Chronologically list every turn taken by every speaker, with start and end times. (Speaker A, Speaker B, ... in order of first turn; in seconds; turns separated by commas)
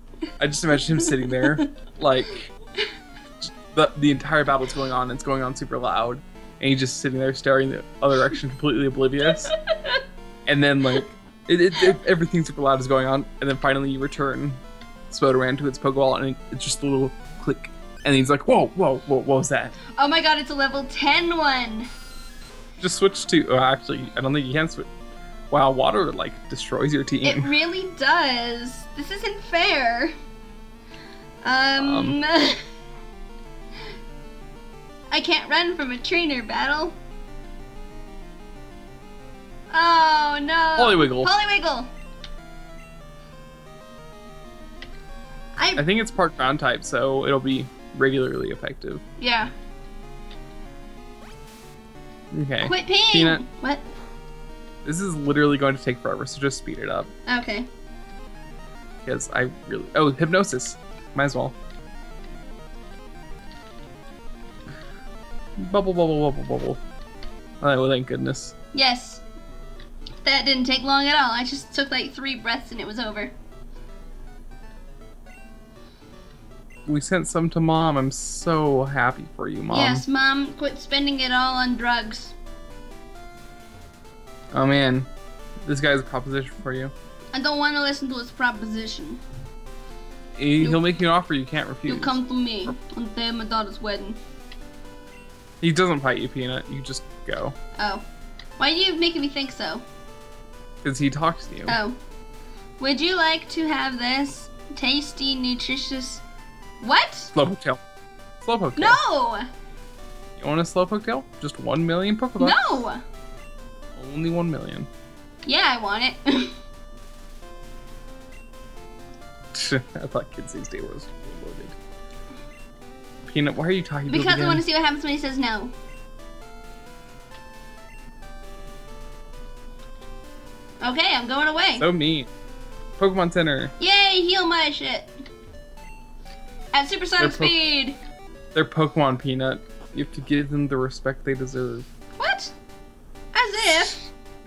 Speaker A: 0.4-2.5, Speaker B: 1.0-1.6, Speaker A: 3.4-9.5, Speaker B: 9.5-10.0, Speaker A: 10.4-19.8, Speaker B: 19.9-21.9, Speaker A: 22.8-24.9, Speaker A: 25.5-27.5, Speaker B: 27.2-30.1, Speaker B: 31.4-32.6, Speaker A: 31.8-32.2, Speaker B: 35.1-37.0, Speaker B: 39.7-41.9, Speaker A: 40.8-41.3, Speaker B: 45.6-45.8, Speaker A: 45.8-49.0, Speaker B: 49.2-49.5, Speaker A: 52.3-53.4, Speaker B: 52.6-53.8, Speaker A: 54.8-57.1, Speaker B: 57.3-57.7, Speaker A: 59.0-61.5, Speaker A: 65.6-66.8, Speaker A: 67.6-68.5, Speaker B: 68.7-69.2, Speaker B: 70.2-73.3, Speaker A: 76.8-80.0, Speaker B: 79.7-82.3, Speaker A: 84.5-85.1, Speaker A: 85.6-86.9, Speaker B: 87.3-89.2, Speaker A: 90.4-92.7, Speaker B: 91.9-94.2, Speaker A: 95.6-97.5, Speaker B: 97.8-98.0, Speaker B: 98.6-99.8, Speaker A: 100.8-101.8, Speaker B: 101.7-102.0, Speaker B: 102.8-106.2, Speaker B: 106.8-107.3, Speaker A: 107.3-107.8, Speaker A: 108.4-109.0, Speaker B: 108.8-109.5, Speaker A: 110.4-112.8, Speaker B: 112.4-113.0, Speaker A: 113.9-114.9, Speaker B: 115.5-116.5, Speaker A: 119.5-121.8, Speaker A: 123.2-124.6, Speaker B: 124.1-125.7, Speaker B: 130.8-131.9, Speaker A: 131.8-132.3, Speaker A: 133.0-133.7, Speaker B: 133.8-135.1, Speaker B: 136.7-138.0, Speaker A: 137.2-137.5, Speaker A: 138.5-141.9, Speaker B: 142.2-142.5, Speaker B: 143.3-144.1